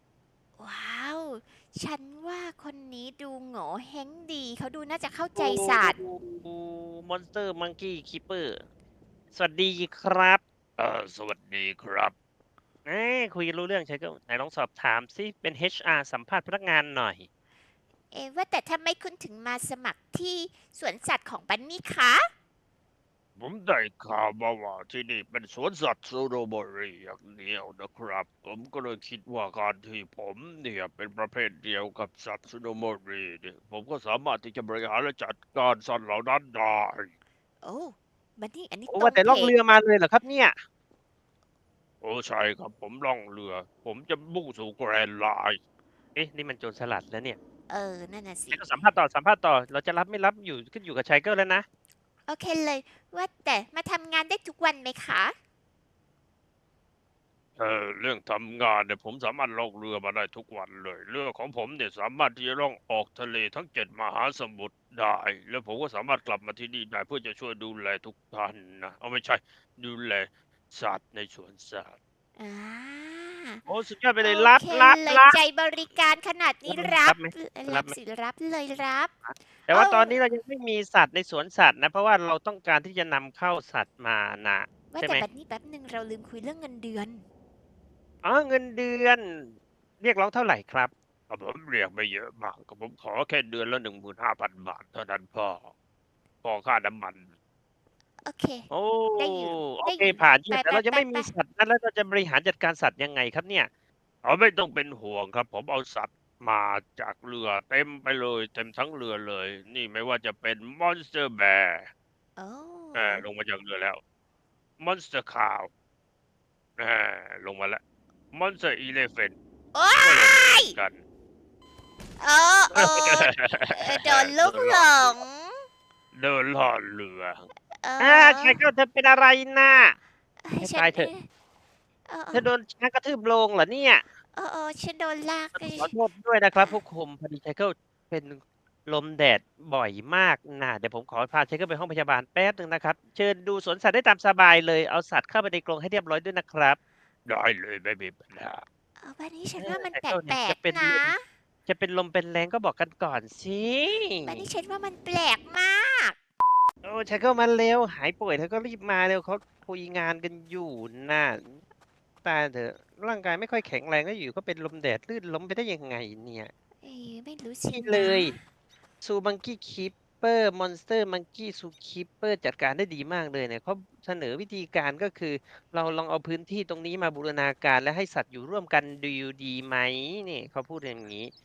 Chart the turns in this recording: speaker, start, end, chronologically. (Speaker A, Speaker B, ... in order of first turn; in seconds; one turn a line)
Speaker A: 0.6-6.0
Speaker B: 5.4-8.6
Speaker B: 9.3-10.4
Speaker C: 10.8-12.1
Speaker B: 12.8-17.3
Speaker A: 18.1-22.3
Speaker C: 23.4-37.1
Speaker A: 37.6-39.5
Speaker B: 38.9-40.5
Speaker C: 42.0-45.6
Speaker B: 46.1-47.4
Speaker A: 47.7-48.6
Speaker B: 48.5-51.7
Speaker A: 52.3-55.4
Speaker C: 57.6-72.0
Speaker A: 72.4-73.6
Speaker B: 73.7-75.4
Speaker A: 74.2-79.1
Speaker B: 76.7-78.0
Speaker B: 79.2-85.2
Speaker A: 79.7-80.2
Speaker A: 84.9-87.2
Speaker B: 88.2-90.9
Speaker C: 91.3-95.7
Speaker C: 96.4-97.3
Speaker A: 98.3-101.3
Speaker B: 98.7-103.7
Speaker C: 104.2-111.9
Speaker A: 112.4-113.2
Speaker C: 113.0-114.0
Speaker C: 114.8-115.7
Speaker C: 116.8-117.8
Speaker C: 118.3-119.3
Speaker A: 119.7-120.8
Speaker C: 120.0-121.0
Speaker A: 122.2-125.6
Speaker C: 122.8-125.2
Speaker C: 126.1-127.5
Speaker A: 127.7-128.6
Speaker B: 128.0-130.0
Speaker A: 130.4-131.3
Speaker B: 130.6-131.1
Speaker A: 132.1-132.5
Speaker B: 132.3-134.0
Speaker A: 134.3-135.9
Speaker B: 135.6-146.8
Speaker C: 147.3-148.7
Speaker A: 149.0-151.2
Speaker B: 149.6-151.1
Speaker B: 151.7-154.5
Speaker A: 154.2-156.2
Speaker B: 156.8-161.6
Speaker B: 162.2-166.5
Speaker A: 166.8-168.4
Speaker B: 167.7-168.4
Speaker B: 169.0-181.3